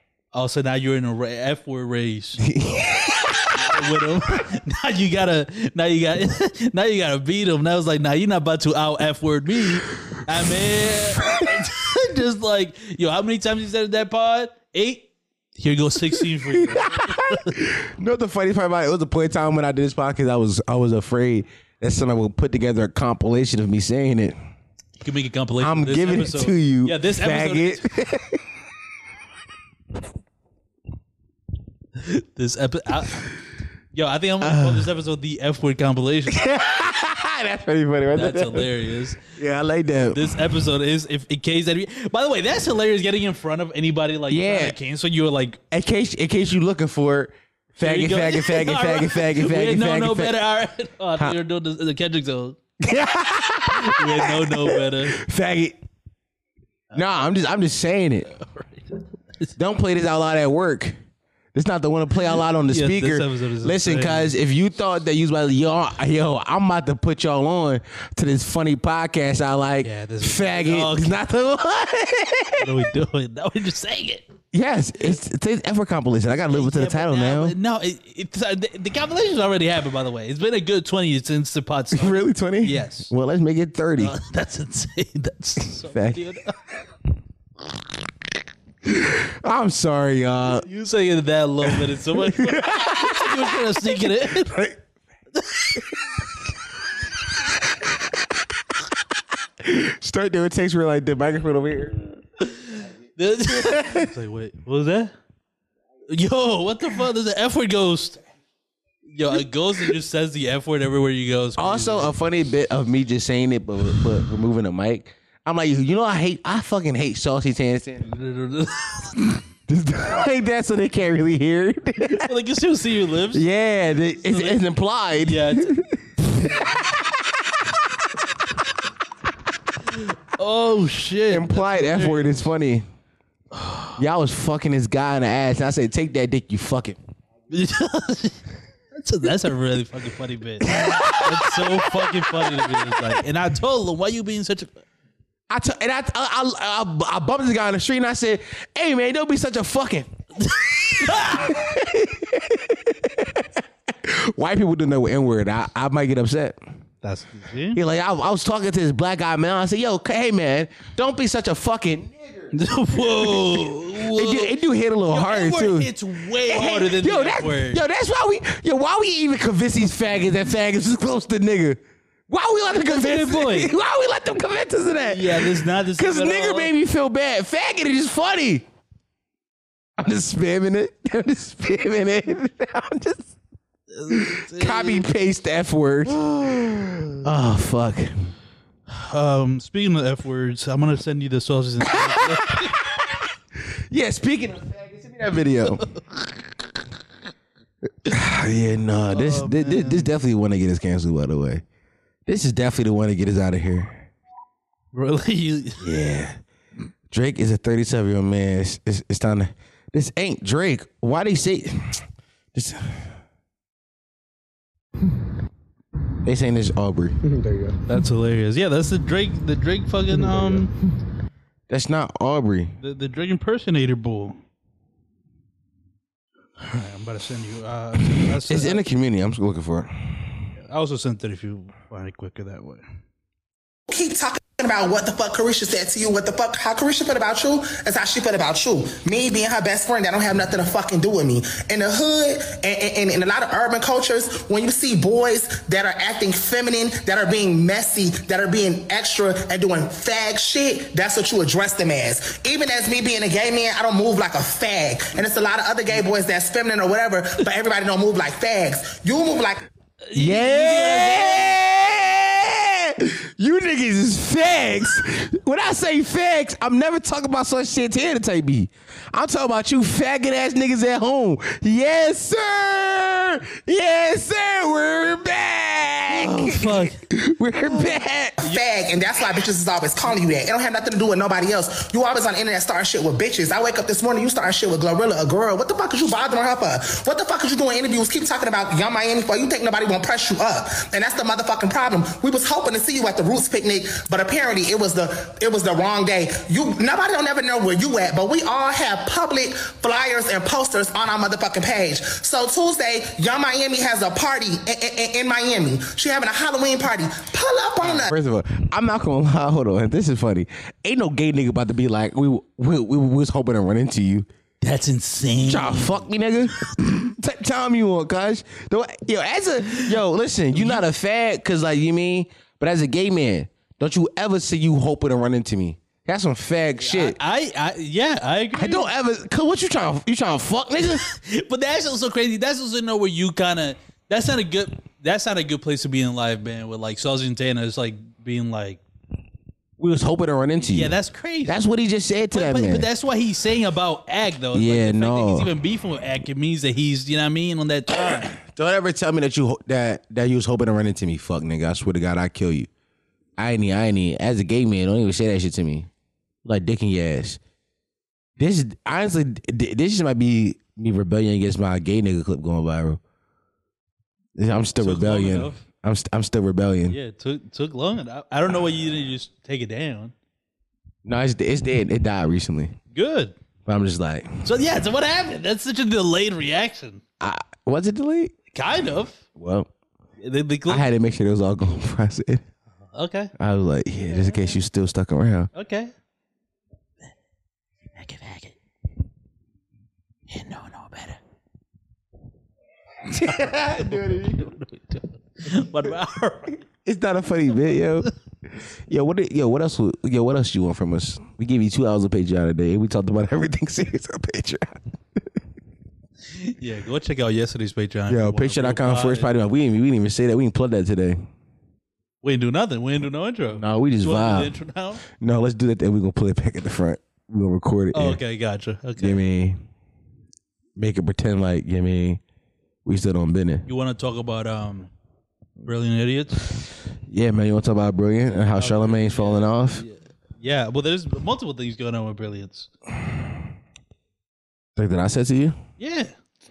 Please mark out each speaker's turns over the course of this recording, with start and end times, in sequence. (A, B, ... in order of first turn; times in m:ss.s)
0:00.3-0:02.4 A
0:02.4-0:03.6 B
0:03.5-0:17.6 A
0:16.5-0:24.3 B
0:25.0-0:27.9 A
0:25.6-0:28.4 B
0:32.0-0:33.3 A
0:33.9-0:36.4 A
0:34.4-0:34.9 B
0:36.3-0:38.7 B
0:38.1-0:39.3 A
0:39.2-0:40.3 B
0:40.1-0:45.6 A
0:44.3-0:44.7 B
0:45.7-0:50.4 B
0:47.7-0:52.6 A
0:52.8-0:55.8 B
0:53.7-0:55.2 A
0:56.9-0:57.3 A
0:56.9-0:58.3 B
0:58.2-0:59.5 A
0:59.6-1:01.0 B
1:01.5-1:12.7 B
1:02.7-1:04.4 A
1:09.8-1:11.2 A
1:12.6-1:14.3 A
1:14.5-1:17.5 B
1:16.4-1:23.1 A
1:21.9-1:24.1 B
1:24.0-1:26.6 A
1:25.9-1:26.2 B
1:28.8-1:30.6 B
1:30.6-1:34.6 A
1:32.3-1:34.8 B
1:35.3-1:35.8 A
1:39.6-1:42.0 B
1:42.4-1:45.1 A
1:43.7-1:44.0 B
1:46.1-1:48.2 A
1:49.0-1:52.1 A
1:51.6-1:58.1 B
1:58.0-1:59.4 A
1:59.7-2:02.3 B
2:02.0-2:03.4 A
2:03.3-2:07.1 B
2:04.1-2:04.6 A
2:05.1-2:05.8 A
2:09.9-2:12.5 A
2:11.3-2:12.8 B
2:13.5-2:14.0 A
2:14.0-2:17.0 B
2:17.5-2:24.8 A
2:20.6-2:23.0 B
2:25.5-2:30.1 B
2:30.4-2:31.6 A
2:31.0-2:33.4 B
2:34.0-2:36.6 B
2:37.0-2:37.8 A
2:37.7-2:58.6 B
2:42.5-2:44.6 A
2:45.1-2:47.8 A
2:52.7-2:53.7 A
2:55.0-2:56.7 A
3:00.0-3:03.3 B
3:03.9-3:05.0 A
3:04.1-3:06.2 B
3:06.1-3:07.2 A
3:07.2-3:08.1 B
3:08.9-3:12.7 A
3:11.8-3:13.0 B
3:13.9-3:15.8 B
3:15.8-3:16.3 A
3:18.0-3:21.6 B
3:19.1-3:20.1 A
3:22.2-3:24.0 B
3:24.9-3:25.9 A
3:25.8-3:26.4 B
3:27.1-3:32.0 B
3:32.5-3:33.1 B
3:36.2-3:37.2 B
3:37.8-3:40.7 A
3:41.7-3:42.8 B
3:42.8-3:44.4 A
3:46.6-3:48.8 A
3:48.5-3:50.5 B
3:50.6-3:52.8 A
3:53.9-4:19.6 C
4:20.0-4:21.6 A
4:20.1-4:38.4 B
4:36.1-4:37.0 A
4:37.6-4:38.6 A
4:38.4-5:08.1 C
5:07.9-5:14.3 B
5:14.6-5:16.1 A
5:15.5-5:27.2 B
5:20.5-5:20.8 A
5:26.8-5:28.9 A
5:28.5-5:31.0 B
5:30.8-5:38.8 A
5:39.8-5:40.9 B
5:40.6-5:41.6 A
5:41.4-5:42.9 B
5:42.3-5:48.3 A
5:44.5-5:45.5 B
5:48.3-5:52.7 B
5:53.4-5:55.9 B
5:56.4-5:57.4 B
5:58.4-6:03.0 B
6:04.4-6:07.0 B
6:04.8-6:05.6 A
6:06.9-6:10.1 A
6:11.0-6:12.7 B
6:12.9-6:13.3 A
6:13.6-6:14.4 B
6:14.4-6:17.0 A
6:17.2-6:18.3 B
6:18.5-6:19.2 A
6:19.4-6:19.7 B
6:20.2-6:20.9 A
6:20.7-6:22.4 B
6:22.9-6:23.3 A
6:23.4-6:25.5 B
6:24.0-6:24.6 A
6:25.5-6:25.9 A
6:28.0-6:28.5 A
6:30.3-6:31.2 A
6:33.1-6:36.6 A
6:33.1-6:34.4 B
6:36.8-6:38.1 B
6:37.7-6:38.1 A
6:38.9-6:44.8 B
6:46.3-6:49.3 A
6:48.1-6:51.3 B
6:52.2-6:55.0 A
6:53.6-6:54.5 B
6:55.1-6:58.2 B
6:57.9-6:59.2 A
6:59.0-6:59.6 B
7:00.8-7:02.2 B
7:02.8-7:03.6 B
7:03.6-7:04.9 A
7:05.6-7:06.5 A
7:07.1-7:09.8 B
7:08.5-7:12.7 A
7:14.8-7:15.6 B
7:15.8-7:16.1 A